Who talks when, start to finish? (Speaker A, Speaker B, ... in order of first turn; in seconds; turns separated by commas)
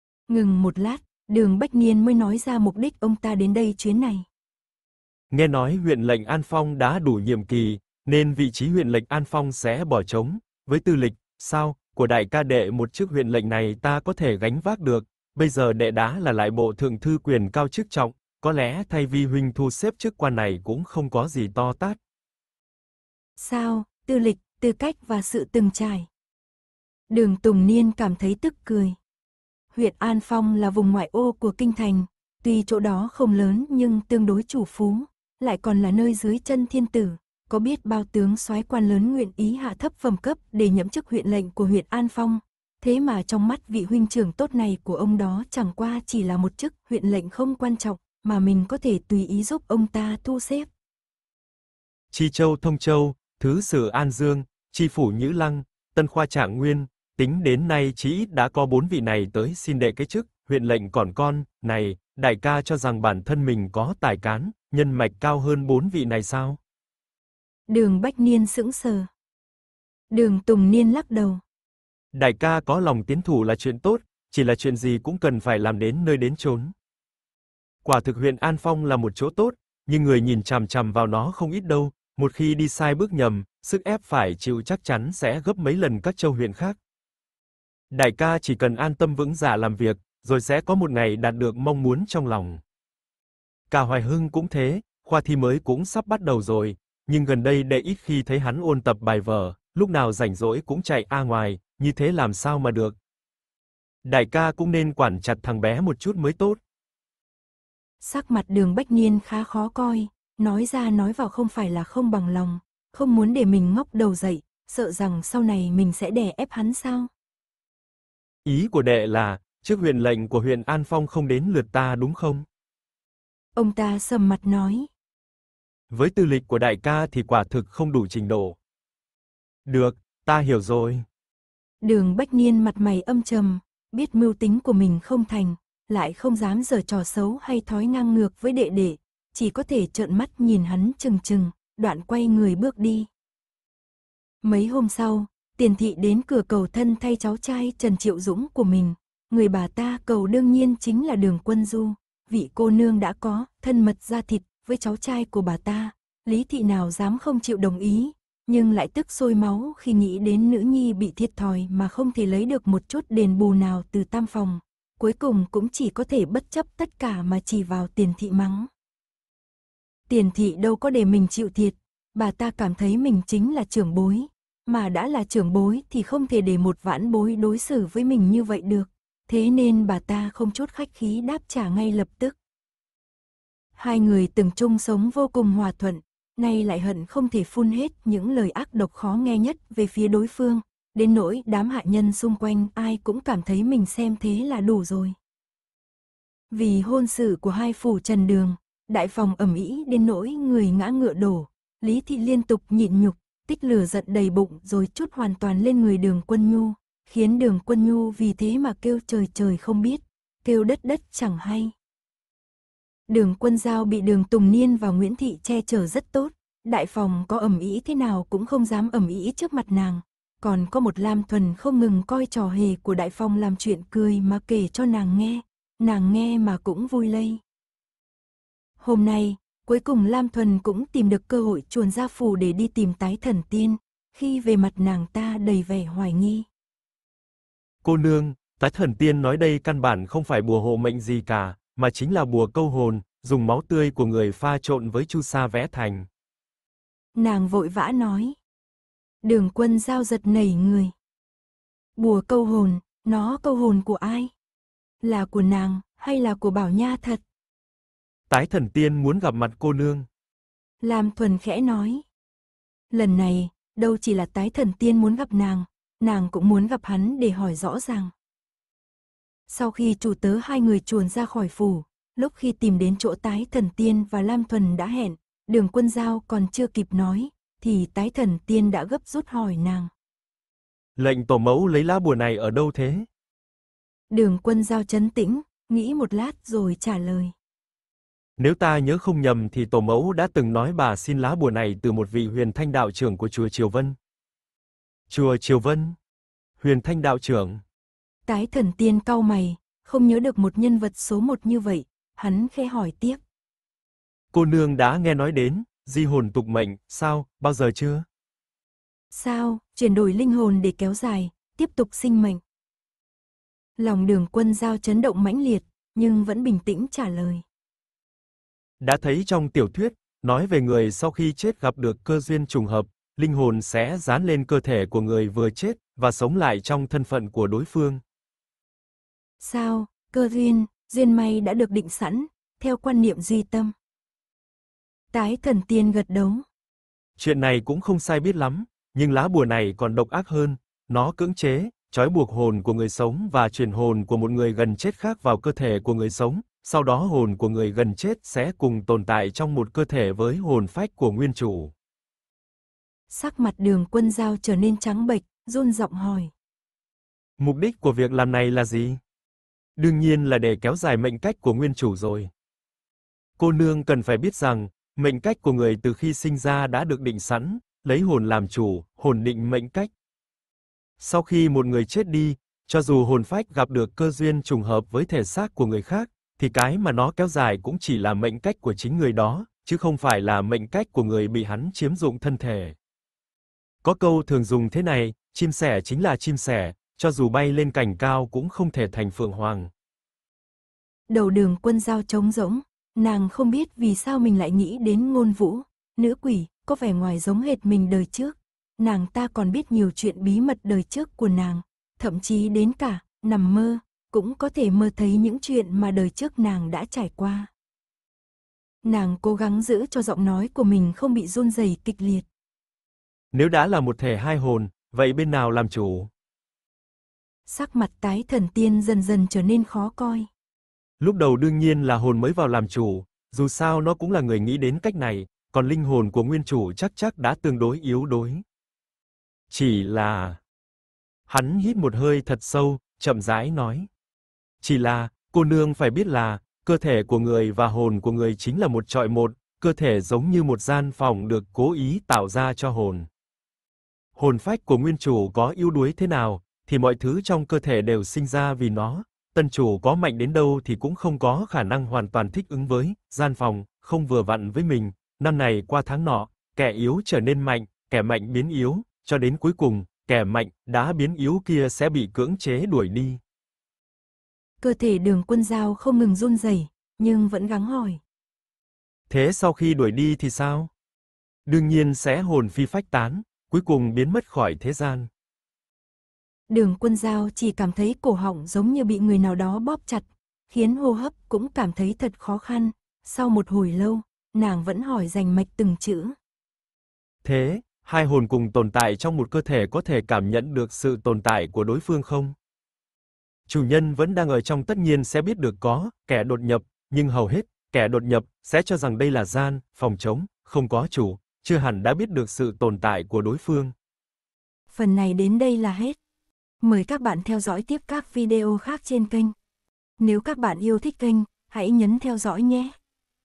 Speaker A: 0.3-4.3, Speaker B: 5.3-22.0, Speaker A: 23.4-26.1, Speaker A: 27.1-29.0, Speaker A: 29.7-50.7, Speaker B: 52.1-66.6, Speaker A: 67.7-69.1, Speaker A: 70.1-71.4, Speaker B: 72.1-76.7, Speaker B: 77.8-86.8, Speaker B: 87.9-92.6, Speaker B: 93.7-103.0, Speaker B: 104.0-106.6, Speaker A: 108.0-117.1, Speaker B: 118.5-122.5, Speaker A: 123.5-124.9, Speaker B: 125.9-128.6, Speaker B: 129.7-131.1, Speaker A: 131.8-143.1, Speaker A: 144.4-168.7, Speaker A: 170.1-182.4, Speaker A: 183.8-195.2, Speaker A: 196.5-211.7, Speaker A: 213.1-227.4, Speaker A: 228.8-236.5, Speaker B: 237.8-246.1, Speaker A: 247.2-248.4, Speaker A: 249.2-250.9, Speaker A: 252.0-254.3, Speaker A: 255.0-257.2, Speaker B: 258.3-260.1, Speaker A: 260.8-262.1, Speaker A: 262.9-268.1, Speaker A: 269.5-279.9, Speaker B: 281.0-283.1, Speaker A: 284.1-287.3, Speaker B: 288.4-294.0, Speaker B: 295.1-296.0, Speaker B: 296.6-297.6, Speaker A: 298.3-303.2, Speaker B: 304.3-308.1, Speaker A: 309.1-312.4, Speaker A: 313.8-317.4, Speaker B: 318.8-328.0, Speaker A: 329.4-333.7, Speaker A: 335.1-336.4, Speaker B: 337.2-351.7, Speaker A: 353.1-356.3, Speaker B: 357.4-359.0, Speaker B: 359.8-362.3, Speaker B: 363.4-369.9, Speaker B: 371.0-382.8, Speaker B: 383.8-389.7, Speaker A: 391.1-407.5, Speaker A: 408.8-412.3, Speaker B: 413.3-416.1, Speaker A: 417.5-420.3, Speaker B: 421.0-428.4, Speaker B: 429.5-430.4, Speaker B: 431.3-433.9, Speaker B: 434.6-443.1, Speaker B: 444.2-463.2, Speaker A: 464.6-468.0, Speaker B: 469.1-470.7, Speaker B: 471.5-475.1, Speaker A: 476.5-486.1, Speaker B: 487.2-492.4, Speaker B: 493.5-503.7, Speaker A: 504.7-506.0, Speaker A: 506.6-509.3, Speaker A: 510.0-512.8